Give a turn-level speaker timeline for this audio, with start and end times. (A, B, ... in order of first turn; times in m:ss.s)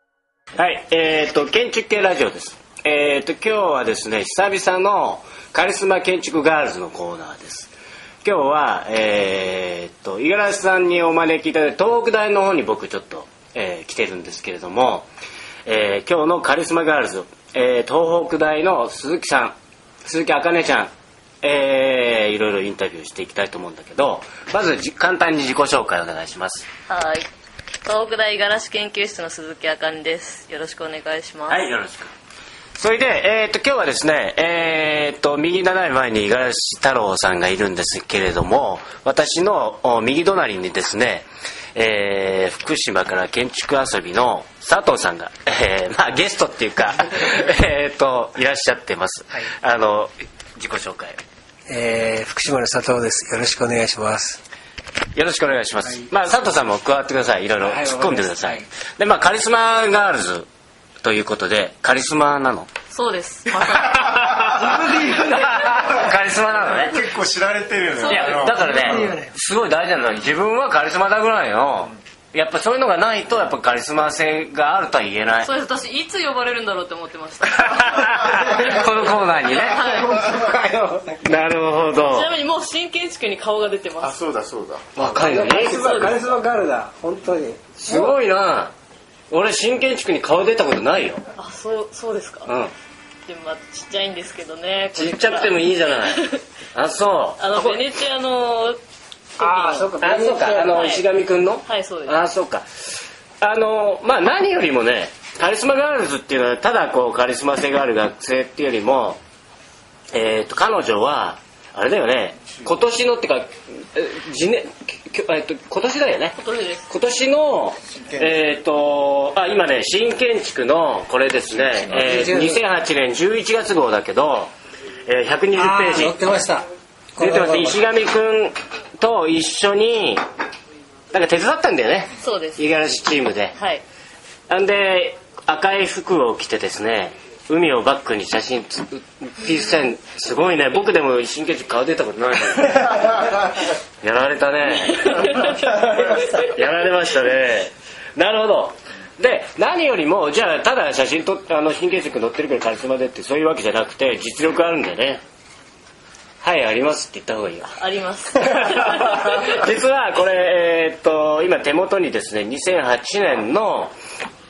0:00.6-0:15.1 A
0:15.6-0:26.7 A
0:26.9-0:27.2 B
0:27.8-0:31.7 B
0:31.5-0:32.1 A
0:32.8-0:51.2 A
0:51.7-0:54.4 C
0:55.1-1:00.5 A
0:55.8-0:56.1 C
0:57.6-0:58.7 C
1:01.0-1:02.7 A
1:02.9-1:04.4 B
1:03.9-1:07.0 A
1:03.9-1:05.9 D
1:04.5-1:05.8 C
1:06.6-1:09.0 D
1:07.9-1:08.4 B
1:08.0-1:15.5 A
1:08.4-1:09.3 C
1:15.4-1:18.9 B
1:17.6-1:19.8 A
1:19.6-1:20.2 B
1:19.6-1:21.2 C
1:21.2-1:22.3 A
1:22.0-1:24.2 B
1:24.0-1:24.9 D
1:24.9-1:26.0 A
1:25.0-1:28.1 C
1:25.2-1:26.2 B
1:27.8-1:28.7 A
1:29.3-1:31.2 A
1:31.4-1:32.5 B
1:32.5-1:32.7 A
1:33.2-1:36.4 B
1:34.9-1:37.8 A
1:37.4-1:38.8 B
1:39.3-1:40.0 B
1:39.4-1:40.8 C
1:40.0-1:49.2 A
1:40.6-1:41.1 B
1:41.6-1:42.2 B
1:50.1-2:04.5 A
1:56.4-1:56.9 B
1:57.9-1:58.4 D
2:01.5-2:02.2 D
2:01.9-2:02.6 C
2:05.0-2:06.2 A
2:05.5-2:07.8 C
2:07.2-2:10.2 A
2:11.1-2:13.6 A
2:12.2-2:12.7 B
2:13.5-2:13.8 B
2:14.5-2:23.4 A
2:24.0-2:35.2 A
2:24.9-2:26.5 B
2:36.4-2:37.7 A
2:37.7-2:39.5 B
2:38.4-2:43.9 A